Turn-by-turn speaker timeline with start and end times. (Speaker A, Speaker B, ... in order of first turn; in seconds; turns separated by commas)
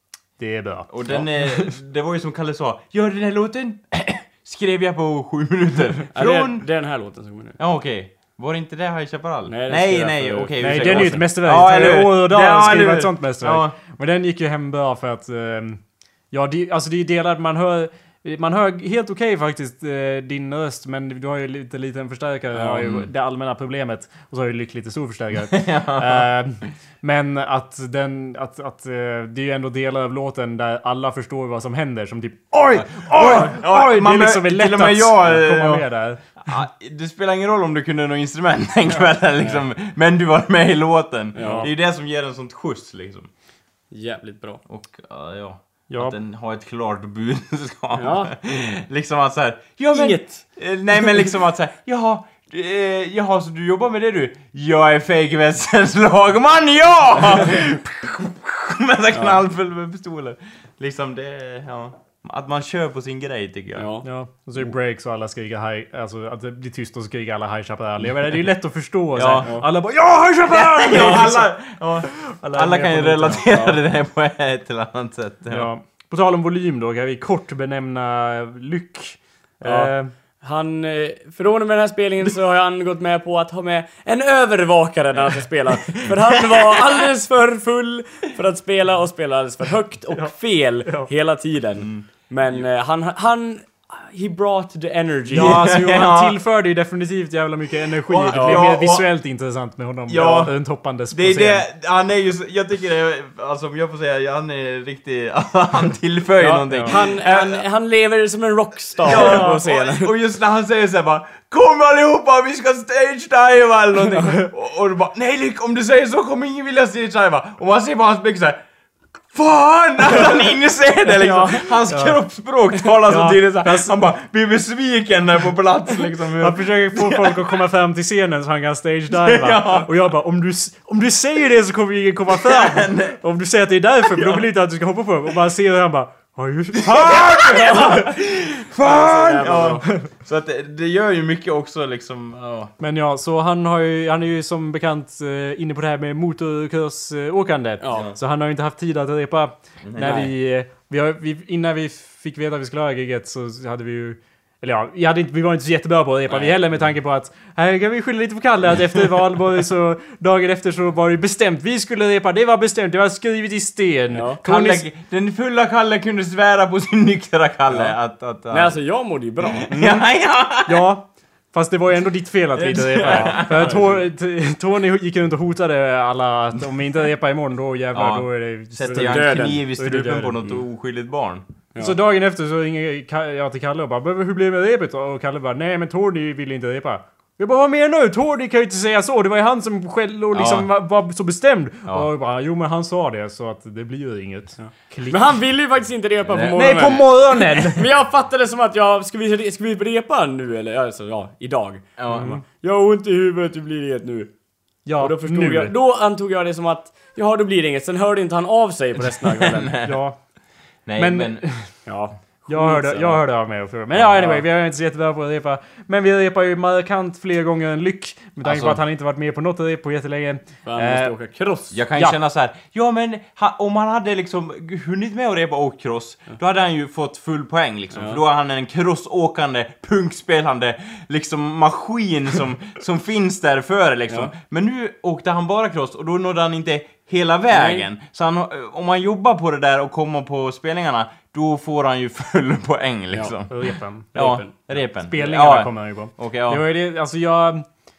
Speaker A: 0.4-1.7, Speaker B: 0.9-6.7, Speaker C: 6.1-7.6, Speaker B: 7.6-13.8, Speaker C: 9.5-11.2, Speaker A: 10.6-15.8, Speaker A: 16.3-36.2, Speaker B: 22.8-23.1, Speaker B: 25.5-26.3, Speaker B: 32.7-35.9, Speaker B: 36.4-43.3, Speaker C: 41.4-41.7, Speaker A: 41.4-41.7, Speaker C: 43.9-44.6, Speaker B: 44.7-63.9, Speaker A: 45.9-46.2, Speaker C: 48.0-48.3, Speaker C: 49.9-50.4, Speaker C: 59.1-59.4, Speaker C: 63.8-64.0, Speaker A: 64.0-71.5, Speaker B: 69.2-69.5, Speaker B: 70.5-75.7, Speaker A: 72.1-73.5, Speaker C: 73.5-73.8, Speaker A: 75.5-80.1, Speaker C: 79.6-95.6, Speaker B: 91.8-92.6, Speaker A: 95.3-101.7, Speaker B: 95.3-96.4, Speaker B: 98.1-99.1, Speaker C: 98.3-98.7, Speaker B: 100.1-100.6, Speaker B: 101.1-107.6, Speaker C: 106.4-110.1, Speaker A: 106.7-107.0, Speaker B: 109.0-118.6, Speaker A: 109.2-109.4, Speaker B: 119.3-127.4, Speaker A: 121.1-122.2, Speaker A: 123.1-124.0, Speaker A: 126.4-138.1, Speaker B: 129.1-129.9, Speaker B: 132.3-133.2, Speaker B: 134.0-134.5, Speaker B: 136.7-142.7, Speaker C: 138.8-139.9, Speaker A: 142.8-164.9, Speaker C: 147.8-148.1, Speaker B: 147.9-148.2, Speaker B: 149.8-150.3, Speaker C: 150.0-150.3, Speaker C: 156.3-156.6, Speaker C: 164.1-164.4, Speaker B: 164.4-168.8, Speaker C: 167.7-168.0, Speaker C: 168.5-169.8, Speaker B: 169.6-170.8, Speaker A: 169.7-170.1, Speaker A: 170.6-180.4, Speaker B: 172.6-173.9, Speaker C: 173.1-174.0, Speaker B: 177.9-181.4, Speaker C: 178.9-179.7, Speaker A: 181.8-195.2, Speaker B: 190.3-190.7, Speaker C: 194.6-204.3, Speaker B: 196.3-196.9, Speaker A: 196.5-197.8, Speaker B: 202.0-202.4, Speaker A: 202.1-202.4, Speaker A: 204.9-205.7, Speaker C: 205.0-209.8, Speaker B: 209.4-210.0, Speaker A: 209.8-210.2, Speaker B: 210.9-211.4, Speaker A: 211.0-211.7, Speaker C: 211.9-213.2, Speaker A: 212.5-221.1, Speaker C: 213.9-214.4, Speaker B: 218.5-218.8, Speaker C: 220.7-221.8, Speaker B: 221.7-243.6, Speaker C: 227.9-228.2, Speaker C: 237.5-237.9, Speaker A: 243.5-244.1, Speaker B: 244.1-246.7, Speaker C: 244.1-244.5, Speaker A: 245.0-247.7